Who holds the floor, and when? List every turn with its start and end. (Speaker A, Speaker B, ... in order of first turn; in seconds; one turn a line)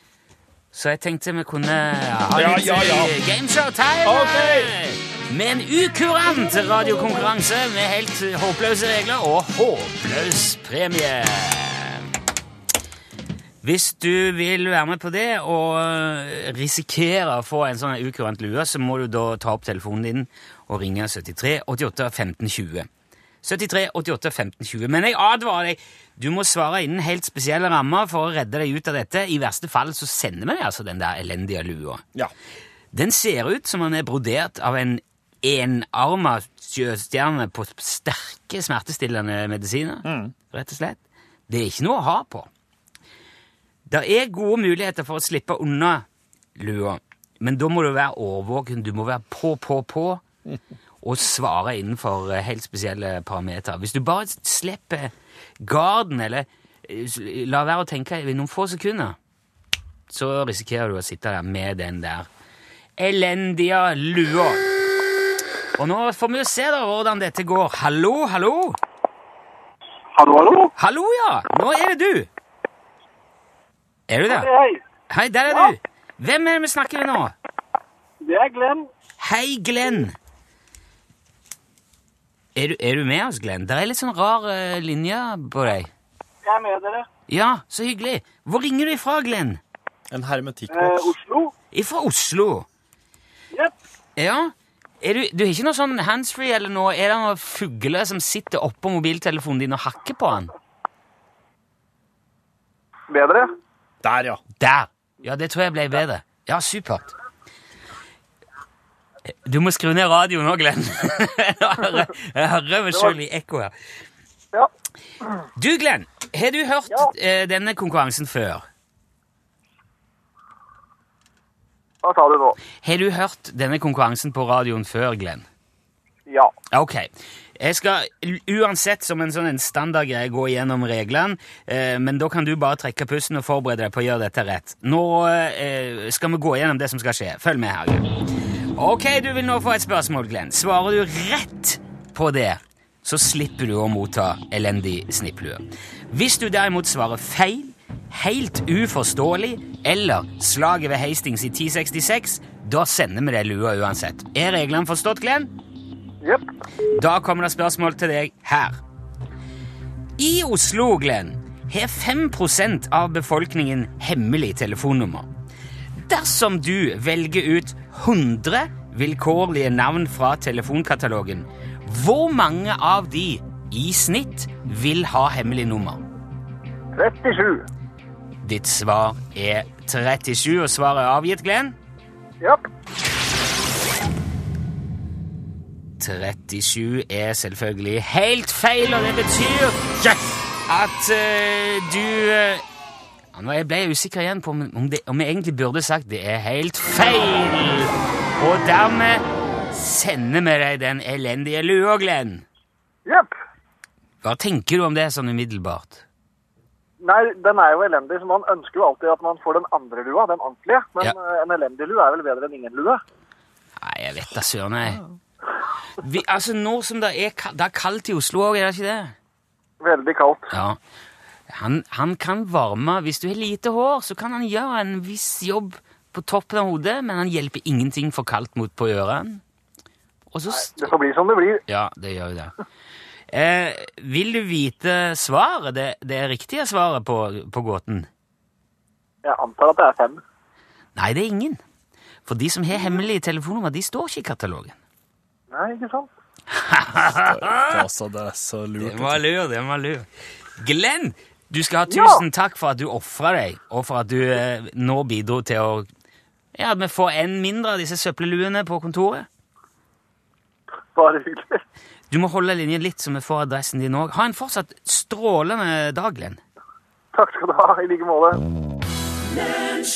Speaker A: 0.7-12.0
Speaker B: 2.3-3.1
Speaker B: 4.0-4.7
Speaker A: 13.6-22.9
Speaker A: 23.4-32.0
Speaker A: 32.9-42.5
Speaker B: 40.0-40.3
Speaker A: 43.9-46.0
Speaker A: 46.6-50.2
Speaker A: 51.0-59.2
Speaker A: 60.1-62.3
Speaker A: 63.0-64.7
Speaker A: 65.8-68.8
Speaker C: 70.2-70.7
Speaker A: 70.8-72.3
Speaker A: 74.1-74.5
Speaker C: 74.3-74.8
Speaker A: 75.1-77.3
Speaker C: 78.2-78.9
Speaker A: 79.2-80.2
Speaker A: 82.6-85.9
Speaker C: 86.4-87.1
Speaker A: 87.3-89.6
Speaker B: 90.1-91.2
Speaker C: 90.7-91.5
Speaker A: 91.7-92.7
Speaker A: 94.2-100.5
Speaker C: 103.1-103.5
Speaker B: 104.0-104.4
Speaker A: 104.6-107.1
Speaker A: 109.4-113.7
Speaker A: 115.6-118.7
Speaker C: 122.0-122.6
Speaker A: 122.8-125.5
Speaker A: 126.7-138.1
Speaker A: 138.8-155.5
Speaker A: 156.9-158.8
Speaker A: 160.2-165.3
Speaker A: 165.9-176.0
Speaker C: 176.9-177.7
Speaker A: 178.4-181.8
Speaker A: 186.0-190.0
Speaker A: 190.7-192.6
Speaker A: 193.3-202.4
Speaker C: 203.1-203.3
Speaker A: 204.2-206.1
Speaker C: 207.0-213.0
Speaker A: 213.8-215.0
Speaker A: 216.0-219.1
Speaker C: 219.8-220.5
Speaker A: 220.5-220.8
Speaker A: 221.5-229.4
Speaker A: 230.3-230.9
Speaker C: 230.5-231.6
Speaker A: 231.7-232.5
Speaker A: 233.3-238.1
Speaker C: 239.2-240.2
Speaker A: 240.9-241.6
Speaker A: 242.2-244.8
Speaker C: 245.5-246.1
Speaker A: 246.5-247.8
Speaker B: 247.2-249.2
Speaker A: 248.8-250.1
Speaker A: 250.6-255.9
Speaker C: 251.9-252.2
Speaker A: 256.6-259.3
Speaker C: 260.9-261.6
Speaker A: 262.1-266.4
Speaker C: 267.1-268.4